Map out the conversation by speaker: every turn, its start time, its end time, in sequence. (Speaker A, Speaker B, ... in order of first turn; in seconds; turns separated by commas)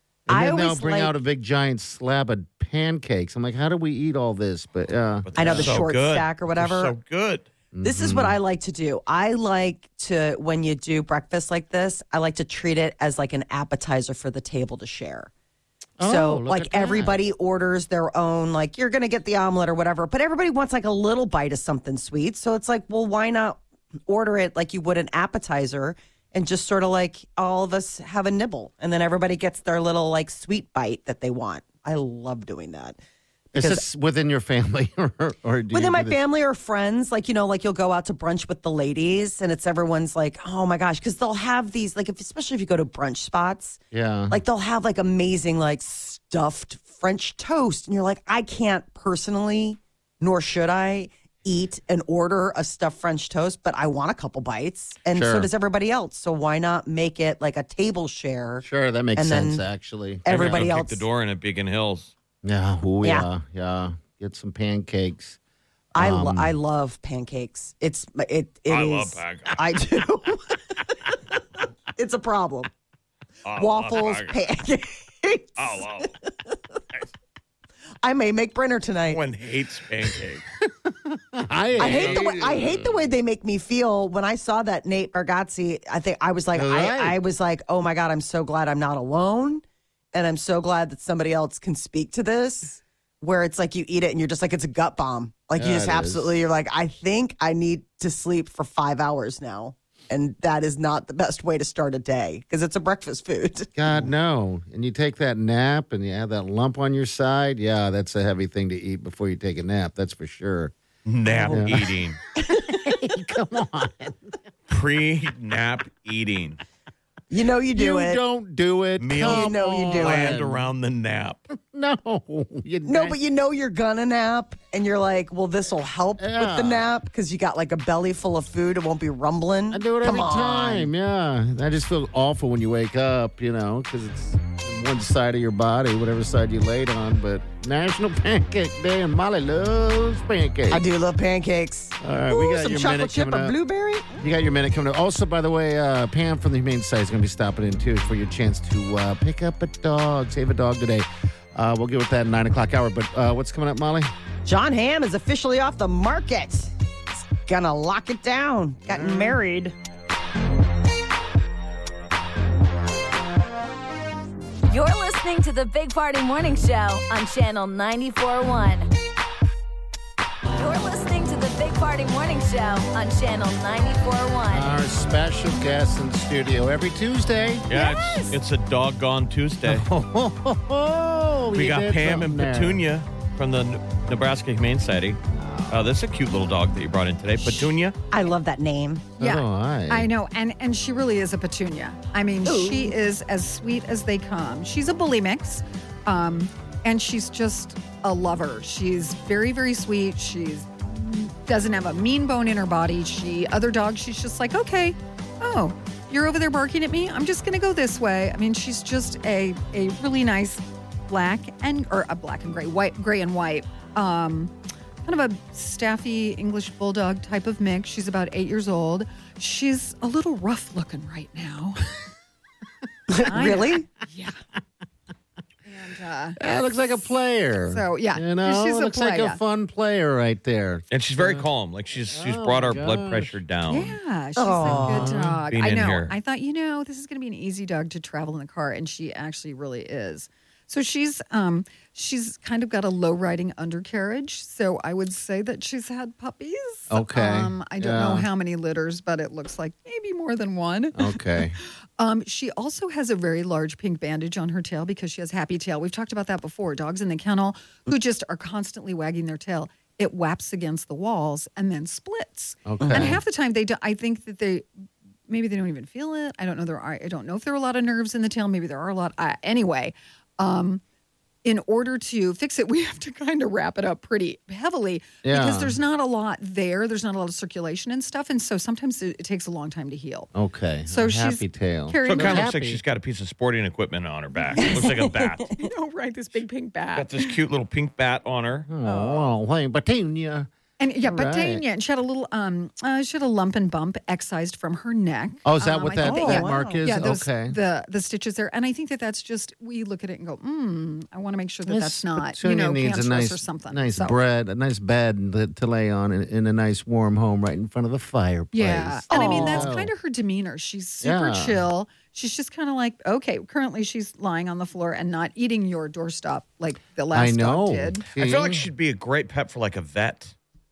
Speaker A: 0.3-5.8, Speaker B: 0.3-1.1, Speaker C: 5.2-7.5, Speaker B: 5.3-6.9, Speaker A: 7.7-8.4, Speaker B: 7.8-15.3, Speaker A: 16.0-17.2, Speaker B: 16.0-33.0, Speaker B: 33.5-33.8, Speaker A: 33.5-36.2, Speaker B: 35.7-43.8, Speaker A: 43.9-44.4, Speaker B: 44.3-58.6, Speaker A: 55.1-55.5, Speaker A: 58.6-60.7, Speaker B: 59.1-59.6, Speaker B: 60.2-61.0, Speaker C: 60.3-62.1, Speaker A: 62.4-65.4, Speaker B: 63.0-63.3, Speaker B: 66.0-70.6, Speaker A: 66.0-66.5, Speaker C: 68.7-69.6, Speaker B: 72.0-72.7, Speaker C: 73.4-74.4, Speaker B: 73.6-76.5, Speaker C: 75.6-76.1, Speaker B: 78.0-79.2, Speaker C: 79.1-80.4, Speaker A: 80.8-83.0, Speaker C: 81.8-82.3, Speaker B: 81.8-103.7, Speaker A: 86.5-87.2, Speaker A: 95.5-96.3, Speaker A: 103.8-110.7, Speaker C: 111.0-112.2, Speaker A: 111.3-111.9, Speaker B: 111.4-111.7, Speaker B: 112.4-113.0, Speaker A: 112.5-114.3, Speaker C: 114.7-116.6, Speaker B: 117.3-118.2, Speaker A: 117.7-120.7, Speaker C: 119.0-121.4, Speaker B: 119.2-120.4, Speaker A: 121.5-123.2, Speaker B: 122.8-130.9, Speaker A: 126.2-126.9, Speaker A: 129.7-140.8, Speaker B: 140.7-144.2, Speaker A: 142.0-143.6, Speaker A: 144.2-154.1, Speaker B: 154.4-156.7, Speaker B: 157.4-159.8, Speaker A: 158.9-159.4, Speaker D: 164.7-168.9, Speaker D: 170.6-174.7, Speaker A: 174.5-177.7, Speaker C: 177.7-179.8, Speaker B: 177.7-178.3, Speaker A: 179.6-182.8, Speaker C: 181.5-187.9, Speaker B: 187.5-189.1, Speaker A: 189.2-190.1, Speaker E: 189.2-221.8, Speaker B: 192.4-193.0, Speaker B: 223.1-223.9, Speaker E: 223.2-224.3, Speaker E: 225.6-226.4, Speaker A: 226.4-231.5, Speaker E: 227.7-229.4, Speaker C: 230.9-234.0, Speaker A: 232.1-233.3, Speaker E: 233.7-264.7, Speaker B: 234.3-235.2, Speaker A: 234.6-235.4, Speaker C: 235.5-236.1, Speaker A: 246.9-248.3, Speaker A: 251.0-251.6, Speaker A: 262.6-263.2, Speaker B: 262.8-263.1, Speaker E: 265.3-270.8, Speaker E: 271.4-280.3, Speaker A: 275.2-275.8, Speaker A: 280.3-282.8, Speaker E: 280.9-282.5, Speaker C: 282.0-285.5, Speaker E: 284.4-284.8, Speaker B: 284.6-285.6, Speaker E: 285.6-287.4, Speaker C: 286.9-288.7, Speaker A: 288.7-290.5, Speaker E: 288.8-289.2, Speaker E: 290.8-304.2, Speaker A: 291.0-291.6, Speaker A: 295.4-297.6, Speaker B: 296.0-296.7, Speaker A: 301.7-309.9, Speaker E: 308.5-318.1, Speaker B: 309.1-309.7, Speaker A: 311.0-311.6, Speaker A: 317.1-318.7, Speaker C: 318.2-320.3